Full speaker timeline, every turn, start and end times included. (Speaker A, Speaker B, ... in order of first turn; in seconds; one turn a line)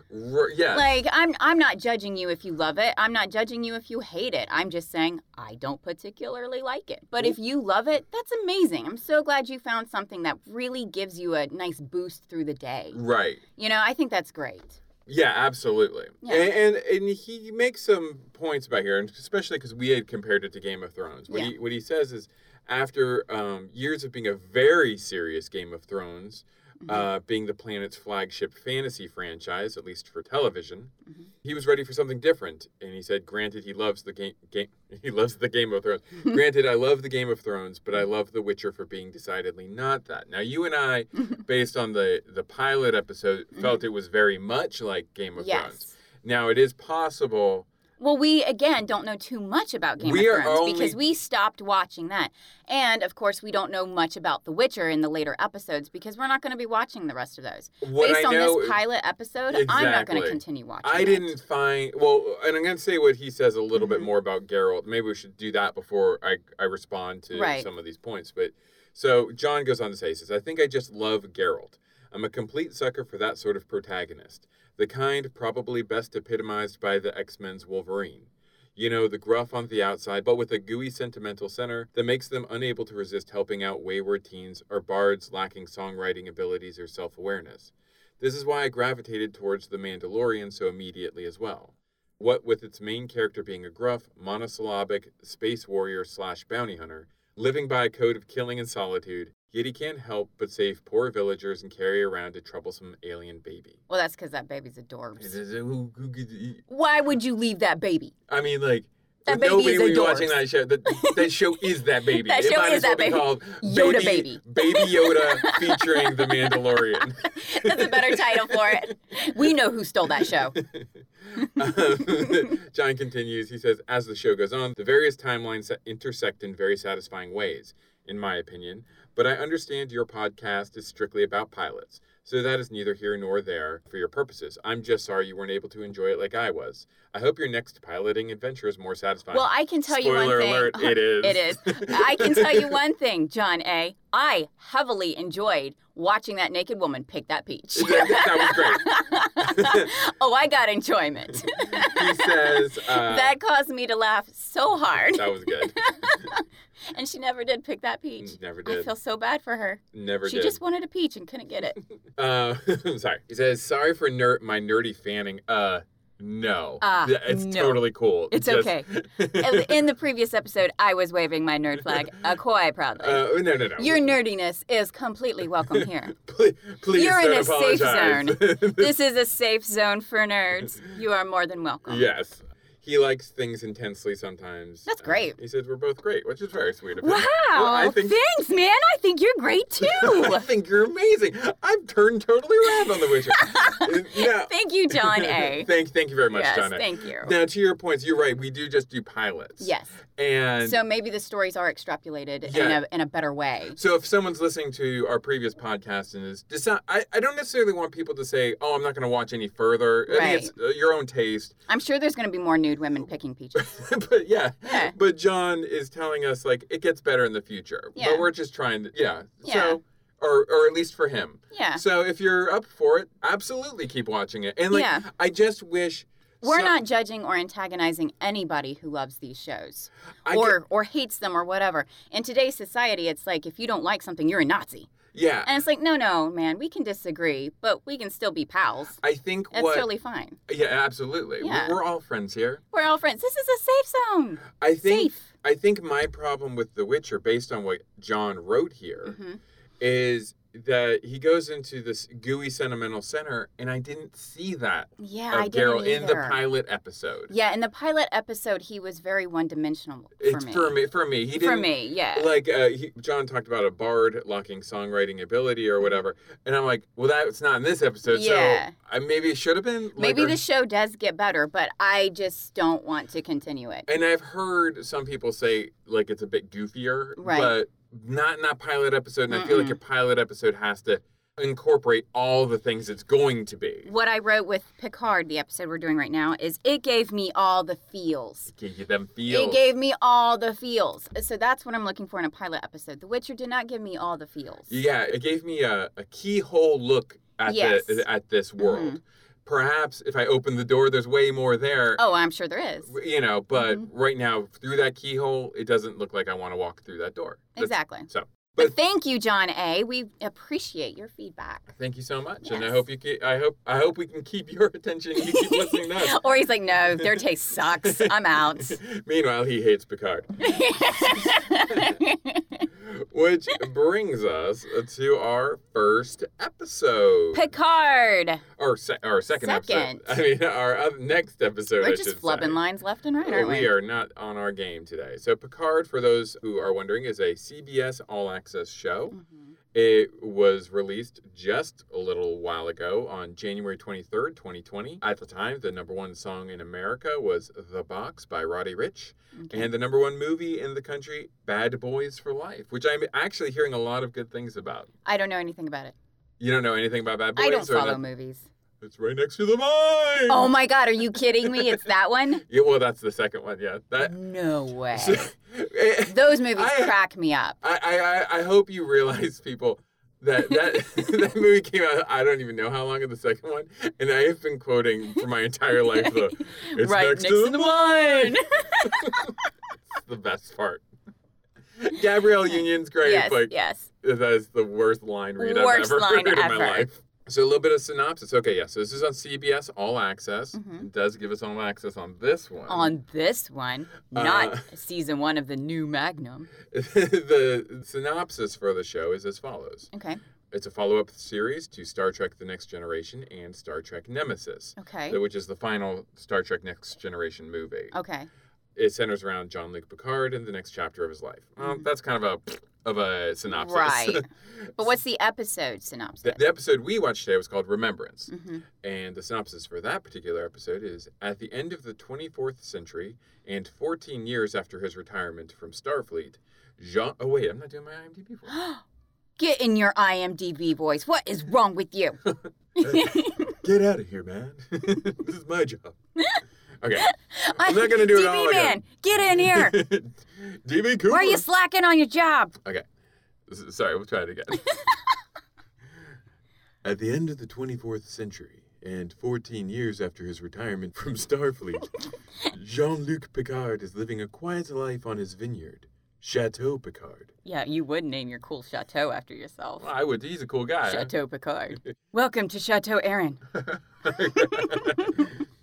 Speaker A: 0.1-1.0
Speaker B: 0.7-13.0
Speaker A: 12.9-13.4
Speaker B: 13.6-14.8
Speaker A: 15.1-30.9
Speaker B: 16.2-16.5
Speaker A: 31.4-47.7
Speaker B: 45.4-45.9
Speaker B: 48.0-61.4
Speaker A: 50.0-51.0
Speaker A: 57.8-58.8
Speaker A: 59.5-103.8
Speaker B: 63.8-64.1
Speaker B: 67.3-67.7
Speaker B: 103.9-105.4
Speaker A: 105.2-106.6
Speaker B: 106.7-108.1
Speaker A: 108.3-118.9
Speaker B: 109.3-111.2
Speaker B: 112.0-120.6
Speaker A: 120.2-142.8
Speaker B: 139.3-161.8
Speaker A: 147.8-149.9
Speaker A: 151.4-153.4
Speaker A: 154.9-155.8
Speaker A: 158.2-158.9
Speaker A: 159.9-160.6
Speaker A: 162.2-169.8
Speaker B: 166.8-176.1
Speaker A: 171.8-172.1
Speaker A: 173.0-174.2
Speaker A: 175.6-178.9
Speaker B: 176.9-182.1
Speaker A: 181.9-188.2
Speaker B: 184.9-185.4
Speaker B: 187.0-190.5
Speaker A: 189.8-200.8
Speaker B: 193.1-195.7
Speaker B: 196.3-197.3
Speaker B: 199.6-200.0
Speaker B: 200.6-203.8
Speaker A: 202.4-202.8
Speaker A: 203.8-211.6
Speaker B: 210.1-210.5
Speaker B: 211.7-213.8
Speaker A: 213.6-226.8
Speaker B: 214.7-214.9
Speaker B: 217.9-218.3
Speaker B: 219.4-219.8
Speaker B: 221.5-221.8
Speaker B: 224.7-225.1
Speaker B: 226.4-234.9
Speaker A: 230.3-230.6
Speaker A: 235.1-235.6
Speaker B: 235.4-239.0
Speaker A: 239.0-239.9
Speaker B: 239.5-240.4
Speaker A: 240.5-242.6
Speaker B: 241.4-241.8
Speaker B: 242.7-245.2
Speaker A: 244.6-249.2
Speaker B: 249.1-249.4
Speaker A: 249.8-257.3
Speaker B: 255.0-256.4
Speaker B: 257.3-260.8
Speaker A: 260.2-270.4
Speaker B: 261.4-262.3
Speaker B: 268.1-268.7
Speaker B: 270.0-273.9
Speaker A: 273.9-283.9
Speaker B: 277.2-277.5
Speaker B: 279.3-279.8
Speaker B: 283.9-288.5
Speaker A: 288.5-289.6
Speaker B: 289.3-294.8
Speaker A: 294.7-302.0
Speaker B: 297.5-298.1
Speaker B: 298.6-299.0
Speaker B: 302.0-302.9
Speaker A: 302.9-308.6
Speaker B: 303.6-303.9
Speaker B: 307.6-311.7
Speaker A: 311.7-316.2
Speaker B: 312.5-312.8
Speaker B: 315.2-318.8
Speaker A: 317.0-322.0
Speaker B: 320.4-322.7
Speaker A: 322.8-327.5
Speaker B: 327.3-328.4
Speaker A: 328.6-332.6
Speaker B: 329.4-330.1
Speaker B: 331.8-333.7
Speaker A: 333.2-339.2
Speaker B: 339.1-339.5
Speaker A: 339.7-354.9
Speaker B: 349.4-349.7
Speaker B: 355.1-355.9
Speaker A: 356.4-358.0
Speaker B: 357.4-358.5
Speaker A: 358.8-360.5
Speaker B: 360.3-362.4
Speaker A: 361.4-361.8
Speaker A: 362.4-364.1
Speaker B: 364.0-365.3
Speaker A: 364.9-367.0
Speaker B: 366.1-367.6
Speaker A: 367.6-379.4
Speaker B: 375.9-379.4
Speaker A: 379.9-380.8
Speaker A: 381.8-392.9
Speaker B: 382.5-383.9
Speaker B: 385.4-386.9
Speaker B: 390.5-390.9
Speaker B: 392.7-396.5
Speaker A: 394.1-394.7
Speaker A: 396.7-399.9
Speaker B: 399.9-400.2
Speaker A: 400.5-407.9
Speaker B: 404.8-405.2
Speaker B: 407.9-408.3
Speaker A: 408.8-414.8
Speaker B: 411.6-411.9
Speaker B: 413.5-414.3
Speaker B: 414.8-416.4
Speaker A: 416.2-428.5
Speaker B: 418.3-418.6
Speaker B: 428.5-428.8
Speaker B: 429.4-432.2
Speaker B: 432.8-433.6
Speaker A: 432.8-435.9
Speaker B: 436.2-436.4
Speaker A: 436.8-438.8
Speaker B: 437.0-439.9
Speaker A: 439.3-441.4
Speaker B: 441.1-442.5
Speaker A: 443.5-444.7
Speaker A: 446.8-451.9
Speaker A: 452.5-457.3
Speaker B: 457.4-459.9
Speaker A: 459.8-461.1
Speaker B: 460.9-463.4
Speaker A: 463.6-465.4
Speaker B: 464.1-465.3